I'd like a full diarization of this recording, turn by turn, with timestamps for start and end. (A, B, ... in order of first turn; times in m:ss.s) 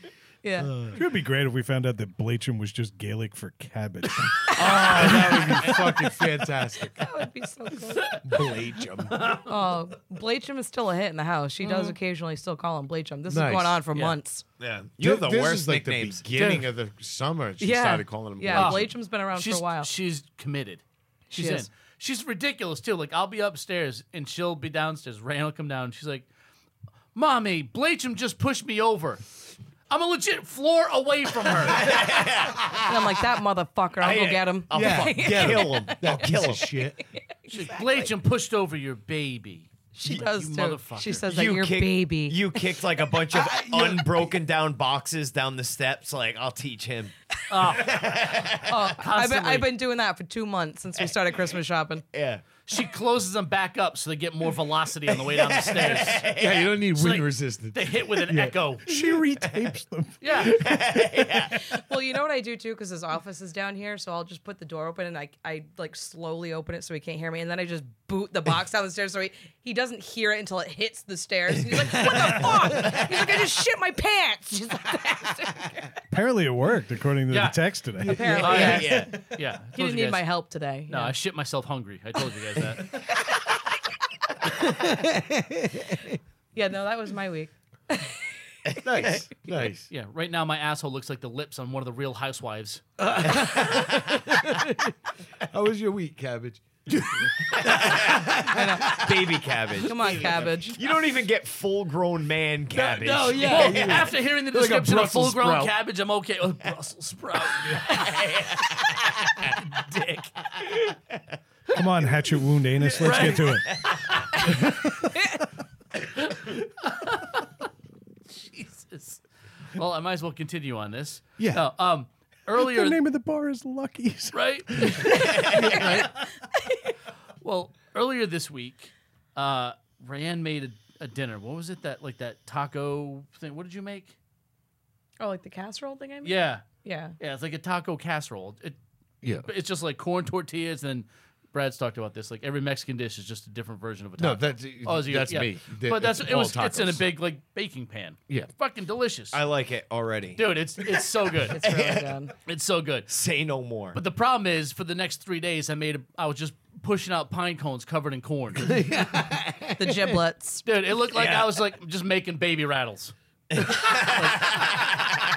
0:00.4-0:00.7 A
0:00.6-0:01.0 B
0:00.9-0:04.4 C
0:04.5-0:05.0 A
0:04.5-0:07.1 B
0:07.0-0:08.2 A
0:08.2-0:09.4 B
0:09.2-0:09.4 D
0:09.4-0:14.4 A
0:13.3-0:13.8 B
0:14.6-0:16.6 E
0:15.0-0:18.9 B
0:16.4-0:16.7 D
0:17.6-0:19.9 A
0:18.5-0:26.3 D
0:21.3-0:21.7 A
0:27.1-0:29.2 D
0:29.9-0:32.0 D
0:31.7-0:33.2 E
0:32.9-0:36.6 A
0:34.0-0:36.8 E
0:34.7-0:37.0 B
0:37.2-0:38.1 A
0:37.5-0:41.2 D
0:39.9-0:42.4 A
0:41.3-0:47.1 E
0:43.3-0:44.3 B
0:47.5-0:48.1 D
0:47.7-0:48.7 E
0:48.6-0:52.0 A
0:49.0-0:49.7 D
0:52.1-0:52.4 E
0:52.7-0:56.3 D
0:55.1-0:56.8 E
0:56.3-0:57.8 B
0:57.0-0:58.9 D
0:58.3-1:01.4 C
1:00.2-1:00.6 D
1:00.5-1:01.6 E
1:01.7-1:15.9 A
1:12.3-1:13.2 E
1:16.1-1:18.4 C
1:17.3-1:17.6 D
1:18.0-1:19.2 A
1:18.4-1:20.3 D
1:18.5-1:19.2 E
1:19.7-1:21.2 A
1:20.9-1:22.9 D
1:24.6-1:26.2 B
1:26.6-1:28.2 A
1:28.8-1:29.9 B
1:29.0-1:29.2 E
1:29.9-1:32.8 D
1:33.0-1:34.9 B
1:33.3-1:34.2 E
1:35.5-1:39.3 B
1:37.6-1:38.3 E
1:38.5-1:38.9 A
1:39.0-1:44.1 E
1:39.9-1:40.8 A
1:42.7-1:48.2 D
1:43.2-1:45.7 B
1:47.8-1:49.5 E
1:49.5-1:50.9 D
1:51.7-1:53.8 C
1:53.0-1:53.9 D
1:54.5-1:55.2 C
1:56.2-1:57.5 D
1:58.3-1:59.2 D
1:59.7-2:03.0 D
2:02.5-2:05.3 C
2:04.3-2:05.9 D
2:05.5-2:06.2 B
2:06.4-2:06.9 A
2:07.4-2:14.2 D
2:15.2-2:17.2 A
2:16.2-2:16.6 D
2:17.2-2:18.8 D
2:19.2-2:19.5 B
2:19.4-2:29.4 D
2:24.2-2:27.0 B
2:29.3-2:30.6 E
2:30.4-2:31.6 D
2:31.5-2:32.3 A
2:31.6-2:32.1 E
2:32.5-2:33.1 D
2:33.1-2:34.0 E
2:33.9-2:38.8 D
2:38.6-2:40.2 B
2:39.8-2:40.7 A
2:40.6-2:43.1 D
2:41.1-2:41.5 E
2:43.5-2:45.1 E
2:44.2-2:44.5 D